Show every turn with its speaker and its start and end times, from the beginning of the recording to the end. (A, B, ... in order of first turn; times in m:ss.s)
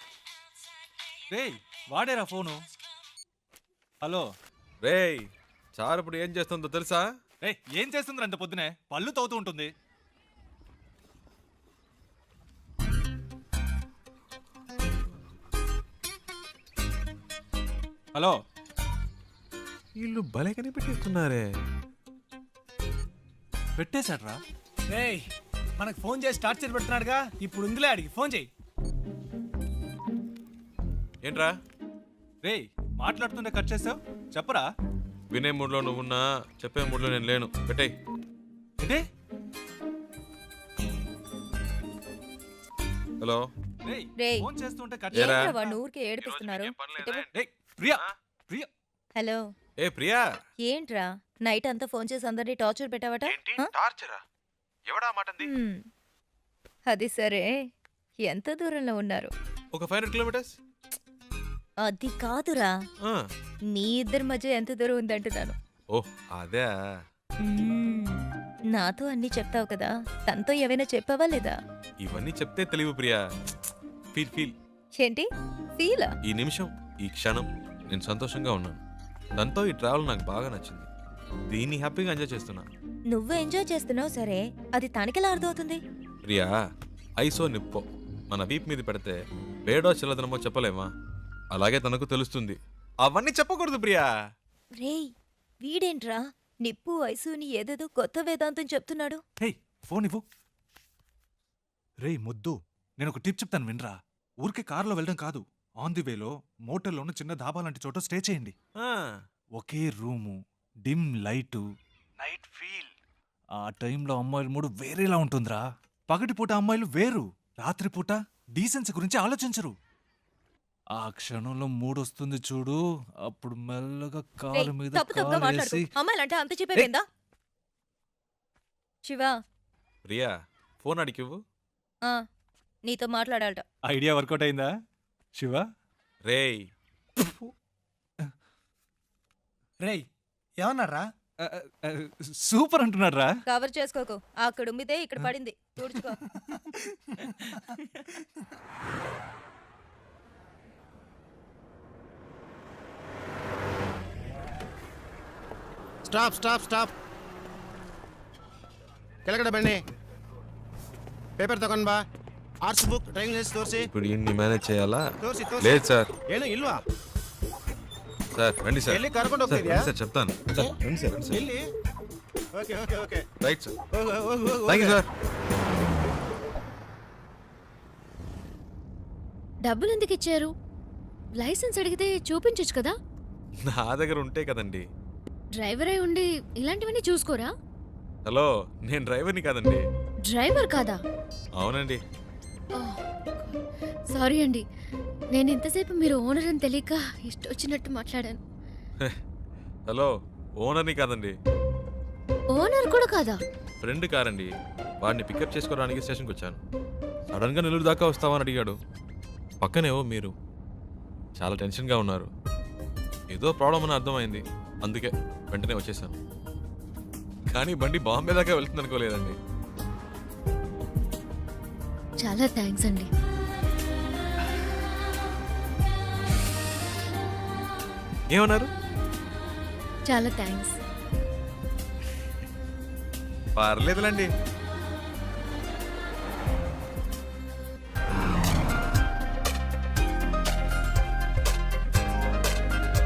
0:01.3-0:02.6 A
0:04.0-0:04.3 A
0:04.8-0:07.1 B
0:07.4-0:09.7 A
0:20.0-0:21.5 B
0:23.8-0:24.4 A
0:24.9-0:28.5 C
0:31.2-0:31.5 B
0:32.4-0:34.7 A
0:35.3-0:37.9 B
0:43.2-0:43.5 B
0:43.8-0:45.8 A
0:44.2-0:44.5 D
0:45.1-0:47.3 D
0:45.1-0:45.6 B
0:46.2-0:47.4 B
0:47.3-0:48.7 A
0:49.2-0:49.4 D
0:49.8-0:50.2 B
0:50.6-0:53.7 D
0:53.3-0:54.2 B
0:54.9-0:55.5 B
0:55.4-0:55.8 D
0:56.9-0:57.6 D
0:58.2-0:59.3 D
0:59.7-1:00.6 B
1:01.9-1:02.7 D
1:03.7-1:05.6 D
1:05.9-1:06.7 B
1:07.4-1:11.6 D
1:12.0-1:13.2 B
1:14.1-1:14.5 B
1:15.0-1:15.3 D
1:15.8-1:16.1 D
1:16.3-1:18.8 B
1:19.4-1:20.9 B
1:21.5-1:22.7 B
1:23.1-1:25.8 D
1:27.2-1:30.9 B
1:31.6-1:34.1 B
1:34.8-1:35.1 D
1:35.6-1:39.2 D
1:39.4-1:40.2 A
1:42.0-1:48.5 A
1:48.8-1:49.1 B
1:49.6-1:51.6 A
1:52.2-1:52.9 A
1:53.6-1:59.7 A
2:01.0-2:05.9 A
2:04.5-2:07.1 D
2:09.0-2:09.3 D
2:10.1-2:11.4 B
2:12.8-2:13.6 D
2:13.9-2:14.7 A
2:15.4-2:15.6 A
2:16.2-2:16.7 B
2:17.2-2:17.5 A
2:19.8-2:20.1 C
2:20.6-2:21.1 C
2:21.4-2:23.3 A
2:23.5-2:26.2 D
2:26.3-2:26.6 A
2:36.1-2:36.9 E
2:39.3-2:39.8 E
2:41.4-2:42.0 E
2:42.6-2:43.9 E
2:43.9-2:45.0 B
2:45.2-2:46.8 E
2:45.6-2:46.1 B
2:48.4-2:51.4 B
2:48.9-2:49.9 E
2:51.3-2:51.7 E
2:52.6-2:53.2 E
2:53.4-2:53.8 B
2:53.9-2:55.0 E
2:54.7-2:55.1 B
2:59.6-3:00.5 F
3:01.4-3:02.9 F
3:03.7-3:04.8 B
3:05.6-3:07.5 F
3:08.3-3:09.8 B
3:10.3-3:11.0 F
3:11.6-3:12.0 B
3:12.8-3:13.6 F
3:14.1-3:14.6 F
3:15.3-3:18.4 F
3:20.6-3:21.3 B
3:22.5-3:23.4 F
3:23.8-3:24.5 B
3:25.0-3:26.6 B
3:27.3-3:28.8 B
3:29.6-3:30.3 B
3:31.4-3:32.3 B
3:33.3-3:36.2 B
3:37.5-3:39.4 B
3:42.2-3:43.1 F
3:48.3-3:48.7 B
3:50.1-3:50.7 F
3:53.6-3:54.3 B